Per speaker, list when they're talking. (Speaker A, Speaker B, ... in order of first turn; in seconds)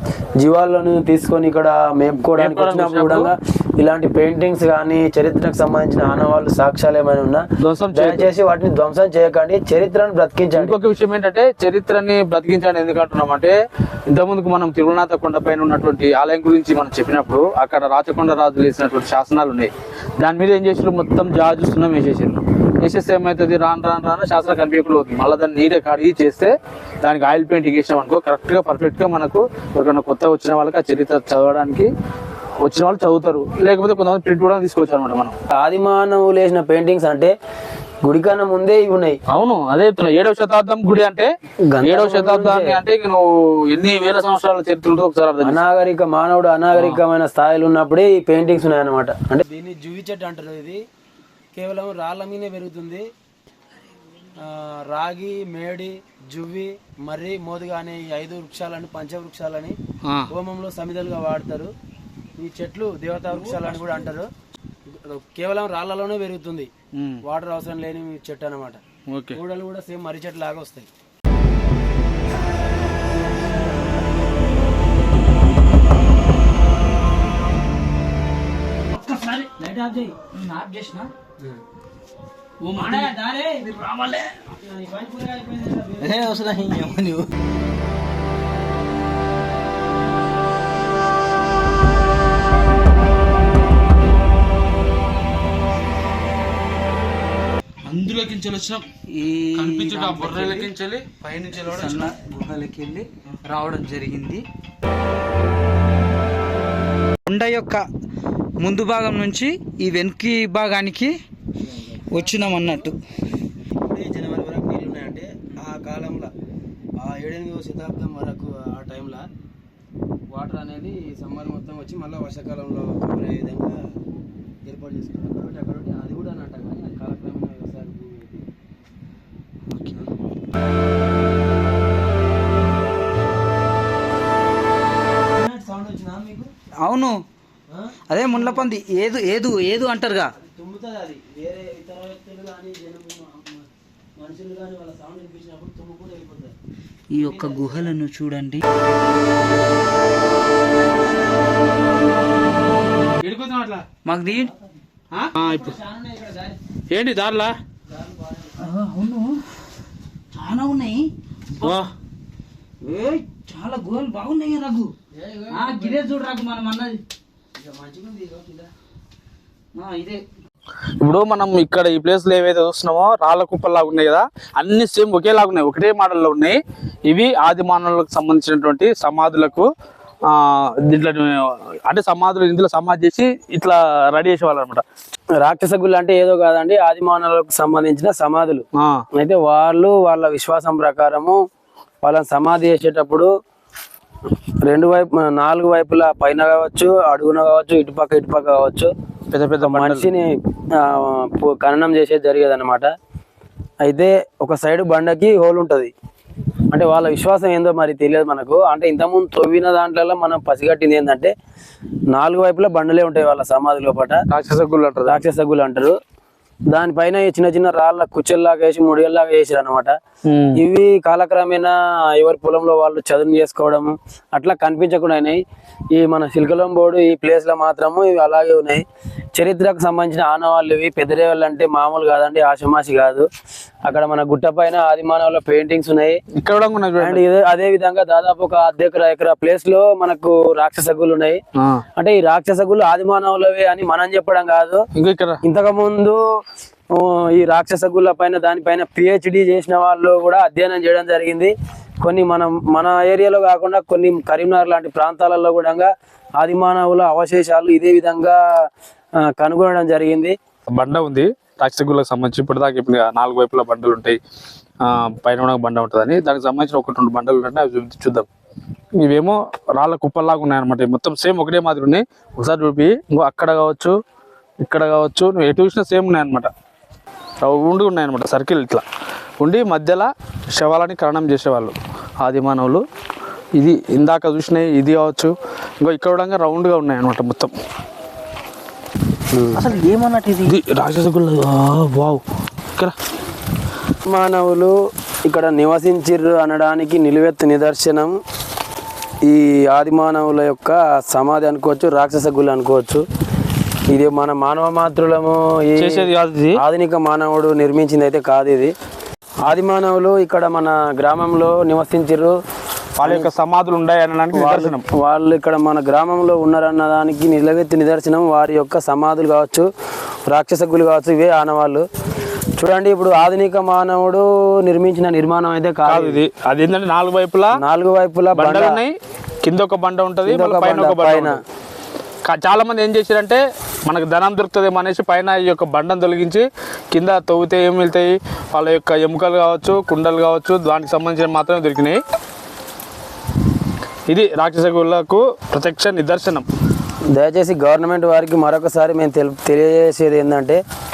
Speaker A: 0.4-10.8, 35.6-37.3, 38.0-39.2, 41.7-42.8, 45.4-50.8, 51.5-53.0, 54.4-59.8, 60.3-61.7, 62.4-64.3, 64.9-66.7, 67.2-68.8, 69.3-70.9, 84.5-86.4, 111.7-112.1, 113.8-116.3, 117.0-119.2, 120.3-123.8, 124.7-128.4, 135.3-136.5, 137.7-138.7, 140.4-146.6, 147.2-147.9, 155.4-156.6, 157.9-158.6, 165.1-166.0, 167.6-168.7, 185.4-188.6, 189.2-191.4, 192.0-193.3, 194.7-198.9, 199.6-202.9, 203.8-205.9, 206.7-211.3, 212.1-214.2, 215.1-215.9, 216.7-219.9, 220.6-225.4, 225.9-228.8, 229.3-233.2, 233.9-236.2, 237.0-241.4, 242.0-244.8, 245.4-246.2, 246.9-255.9, 256.4-258.4, 259.2-260.4, 289.3-289.7, 294.1-294.7, 295.2-298.1, 299.2-303.0, 303.9-308.7, 309.4-312.4, 313.0-313.3, 314.3-319.7, 320.3-321.9, 322.6-326.2, 327.6-328.8, 330.3-331.4, 347.1-350.6
Speaker B: 2.1-3.3, 7.6-8.3, 10.6-13.5, 14.1-31.9, 32.6-35.4, 39.3-41.3, 41.8-45.6, 46.7-47.0, 67.0-67.2, 69.1-69.4, 82.6-83.2, 97.8-98.8, 99.5-102.1, 153.2-153.9, 155.3-155.8, 156.9-157.6, 161.6-161.9, 171.0-179.7, 180.3-184.8, 188.8-189.0, 199.3-200.1, 214.3-215.2, 220.3-220.6, 236.4-237.2, 244.9-245.4, 260.7-264.2, 264.8-268.3, 269.0-273.9, 274.6-276.5, 277.4-278.8, 279.4-282.8, 283.6-287.5, 290.4-292.2, 305.8-306.6, 313.0-314.9, 325.9-327.6, 328.4-331.4, 332.2-342.0, 344.1-346.5
Speaker C: 78.9-81.1, 82.7-84.4, 86.0-87.3, 99.1-100.7, 101.6-104.4, 107.3-107.9, 108.6-111.2, 112.1-113.0, 136.8-137.2, 138.1-140.3, 147.1-148.6, 154.0-154.5, 158.6-159.4, 160.3-161.8, 162.8-164.9, 165.5-167.0, 169.7-170.2, 289.6-290.6